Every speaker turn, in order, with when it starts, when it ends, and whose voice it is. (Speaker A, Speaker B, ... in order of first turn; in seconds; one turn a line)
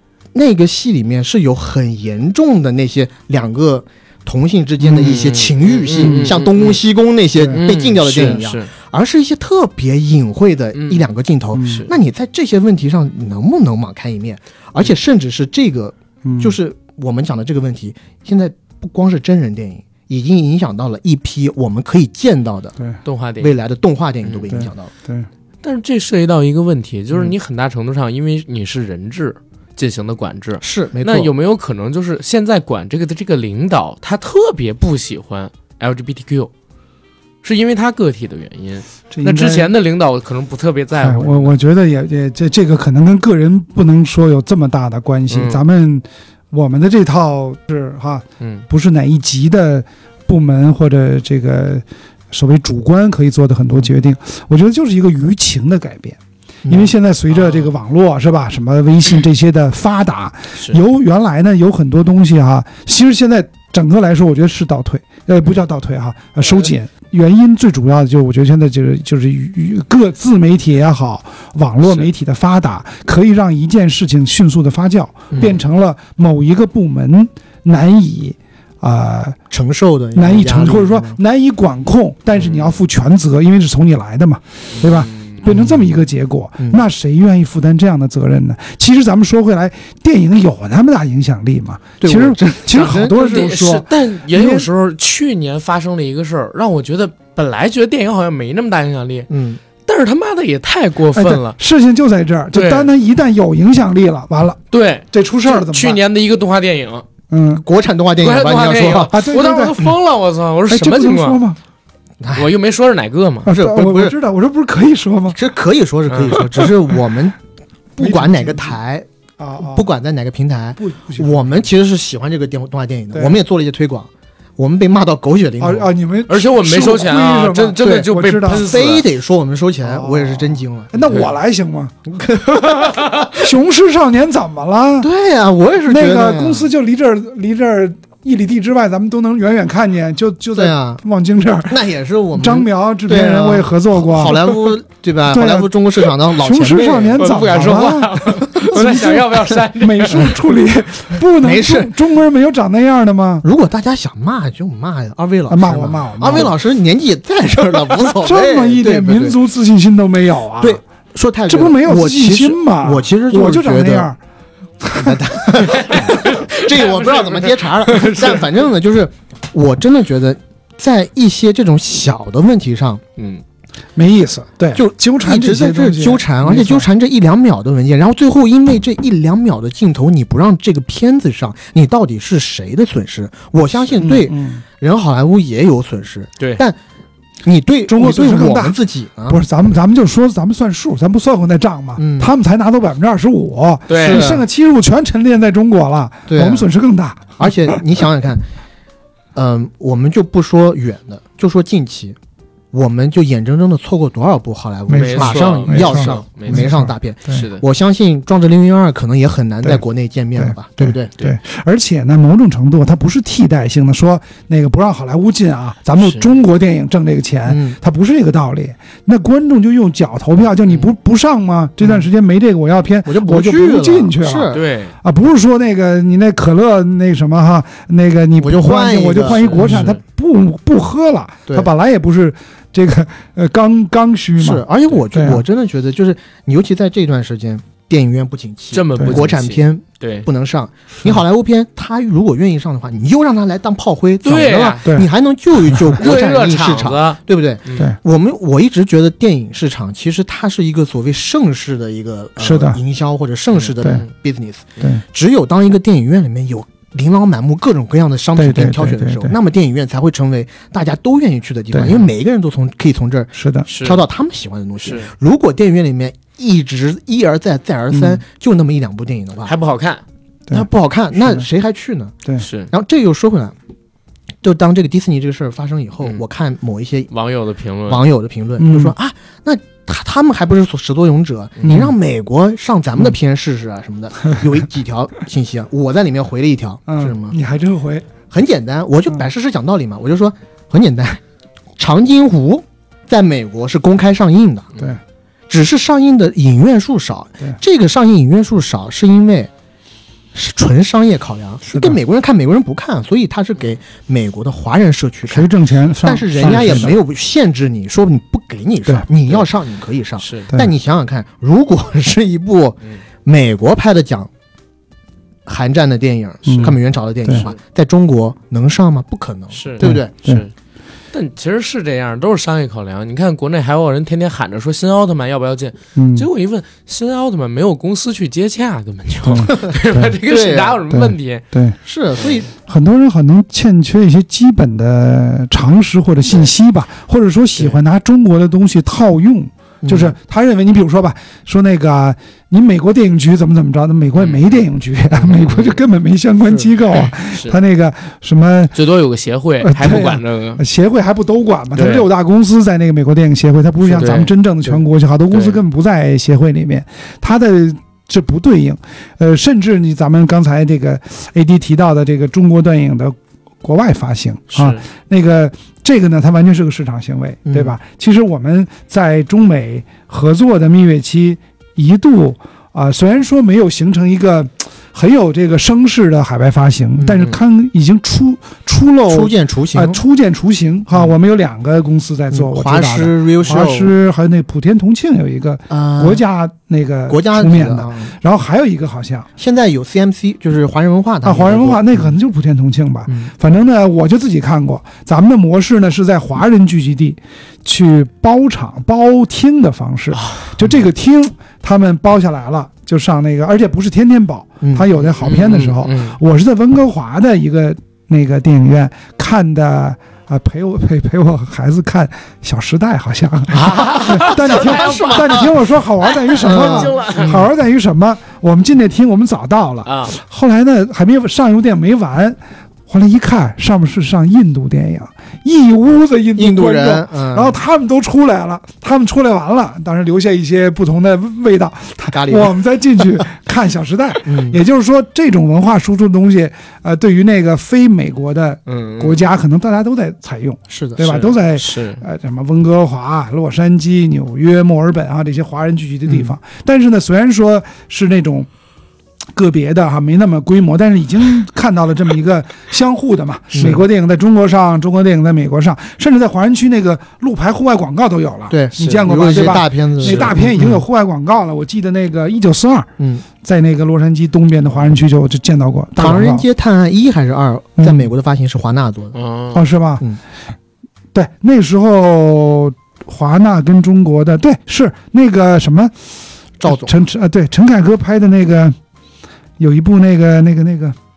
Speaker A: 0.3-22.8
Speaker B: 4.8-6.8
Speaker C: 6.0-6.3
Speaker C: 7.4-7.6
Speaker B: 7.5-8.7
Speaker B: 10.8-11.1
Speaker C: 11.5-11.9
Speaker B: 11.6-11.9
Speaker C: 16.2-16.6
Speaker B: 23.1-23.5
Speaker A: 23.4-24.9
Speaker B: 24.2-24.5
Speaker C: 24.5-25.3
Speaker B: 25.6-36.5
Speaker A: 30.6-31.3
Speaker B: 37.4-41.6
Speaker C: 39.1-39.7
Speaker C: 41.0-79.4
Speaker B: 45.3-45.6
Speaker B: 48.4-48.7
Speaker A: 56.7-56.9
Speaker B: 57.3-57.7
Speaker A: 75.3-75.6
Speaker A: 79.5-81.2
Speaker C: 80.2-94.7
Speaker B: 82.5-82.7
Speaker B: 84.8-85.4
Speaker A: 86.6-86.8
Speaker A: 92.0-93.5
Speaker B: 92.8-99.3
Speaker A: 99.3-99.6
Speaker B: 99.9-101.6
Speaker C: 101.1-104.6
Speaker B: 102.5-102.9
Speaker B: 104.7-107.0
Speaker C: 105.1-106.0
Speaker C: 107.3-107.6
Speaker A: 107.7-109.2
Speaker B: 108.2-111.4
Speaker C: 109.1-109.8
Speaker C: 110.7-111.6
Speaker A: 112.2-112.5
Speaker B: 112.3-113.5
Speaker C: 113.5-115.4
Speaker A: 113.5-114.2
Speaker A: 115.3-117.4
Speaker B: 116.1-116.7
Speaker A: 118.0-119.1
Speaker C: 118.0-118.8
Speaker C: 119.4-119.9
Speaker A: 119.6-125.9
Speaker C: 120.8-121.7
Speaker C: 123.1-123.4
Speaker C: 125.6-129.0
Speaker B: 126.3-129.1
Speaker A: 127.8-131.2
Speaker C: 129.8-131.9
Speaker A: 132.1-133.1
Speaker B: 132.6-133.3
Speaker C: 133.3-135.1
Speaker A: 135.0-136.7
Speaker C: 135.8-141.8
Speaker A: 140.6-141.0
Speaker A: 141.7-147.3
Speaker C: 142.3-144.7
Speaker C: 145.3-145.7
Speaker C: 146.3-153.4
Speaker B: 147.2-150.4
Speaker A: 151.4-151.9
Speaker A: 153.4-159.4
Speaker C: 155.5-156.6
Speaker C: 158.2-160.8
Speaker A: 160.6-164.1
Speaker C: 161.5-164.2
Speaker C: 164.8-166.2
Speaker A: 164.9-173.0
Speaker B: 165.6-168.5
Speaker B: 173.2-173.4
Speaker C: 174.0-176.9
Speaker A: 174.8-186.8
Speaker C: 184.0-184.6
Speaker A: 187.4-189.4
Speaker C: 187.9-197.8
Speaker A: 192.0-192.3
Speaker B: 193.9-194.3
Speaker A: 194.0-194.4
Speaker A: 196.3-196.7
Speaker A: 197.4-198.4
Speaker A: 199.3-202.2
Speaker A: 202.7-211.1
Speaker C: 204.9-207.4
Speaker B: 204.9-206.7
Speaker B: 207.3-207.6
Speaker C: 210.4-235.4
Speaker B: 216.0-216.3
Speaker A: 217.5-217.8
Speaker A: 223.1-224.6
Speaker B: 224.5-224.9
Speaker A: 228.4-229.9
Speaker B: 229.3-230.0
Speaker A: 234.4-269.5
Speaker B: 238.7-240.3
Speaker C: 239.0-239.2
Speaker B: 244.2-244.9
Speaker B: 246.0-247.9
Speaker C: 252.4-252.8
Speaker B: 253.5-254.1
Speaker C: 258.4-259.4
Speaker C: 261.7-262.1
Speaker C: 263.4-263.7
Speaker B: 263.7-264.0
Speaker B: 264.8-265.1
Speaker C: 267.9-268.2
Speaker B: 269.4-270.0
Speaker C: 270.5-271.5
Speaker A: 270.5-272.2
Speaker B: 272.4-272.7
Speaker A: 272.7-273.5
Speaker A: 274.4-277.1
Speaker B: 277.1-278.0
Speaker A: 277.9-287.4
Speaker C: 278.6-278.9
Speaker C: 281.6-281.9
Speaker C: 286.9-288.1
Speaker A: 288.3-291.2
Speaker A: 291.8-294.8
Speaker A: 295.5-299.5
Speaker A: 300.3-305.5
Speaker C: 301.7-302.0
Speaker C: 305.3-307.0
Speaker A: 306.0-314.3
Speaker B: 310.2-310.5
Speaker A: 315.5-320.1
Speaker C: 316.5-317.5
Speaker B: 319.5-320.5
Speaker C: 319.8-320.4
Speaker B: 321.1-331.4
Speaker C: 325.9-326.3
Speaker C: 329.2-330.2
Speaker A: 329.5-329.7
Speaker A: 330.3-330.8
Speaker C: 330.9-331.8
Speaker A: 331.9-332.5
Speaker C: 332.5-348.8
Speaker A: 339.8-340.1
Speaker B: 344.2-344.4
Speaker B: 345.1-345.8
Speaker B: 347.2-347.6
Speaker B: 348.7-350.6
Speaker C: 349.6-389.3
Speaker B: 351.8-352.1
Speaker B: 353.9-354.8
Speaker B: 355.3-355.6
Speaker B: 364.5-364.8
Speaker A: 367.5-367.8
Speaker A: 379.1-380.0
Speaker A: 382.3-383.9
Speaker A: 385.7-386.2
Speaker A: 387.1-388.1
Speaker A: 389.4-392.1
Speaker C: 391.2-448.5
Speaker B: 400.1-400.5
Speaker A: 404.6-404.9
Speaker B: 405.2-406.2
Speaker B: 413.5-415.5
Speaker A: 413.6-415.6
Speaker B: 416.1-417.4
Speaker A: 416.3-417.5
Speaker B: 419.9-420.1
Speaker A: 426.4-427.6
Speaker A: 432.1-432.5
Speaker A: 434.2-434.6
Speaker B: 438.7-439.2
Speaker A: 440.7-441.2
Speaker B: 441.0-442.0
Speaker C: 449.3-466.5
Speaker A: 453.5-453.8
Speaker A: 458.5-460.8
Speaker B: 458.8-460.4
Speaker A: 463.0-463.2
Speaker A: 466.0-469.2
Speaker C: 467.8-468.1
Speaker B: 469.1-469.6
Speaker C: 469.5-470.1
Speaker C: 471.1-475.9
Speaker A: 476.6-476.9
Speaker C: 476.6-478.8
Speaker C: 479.6-481.0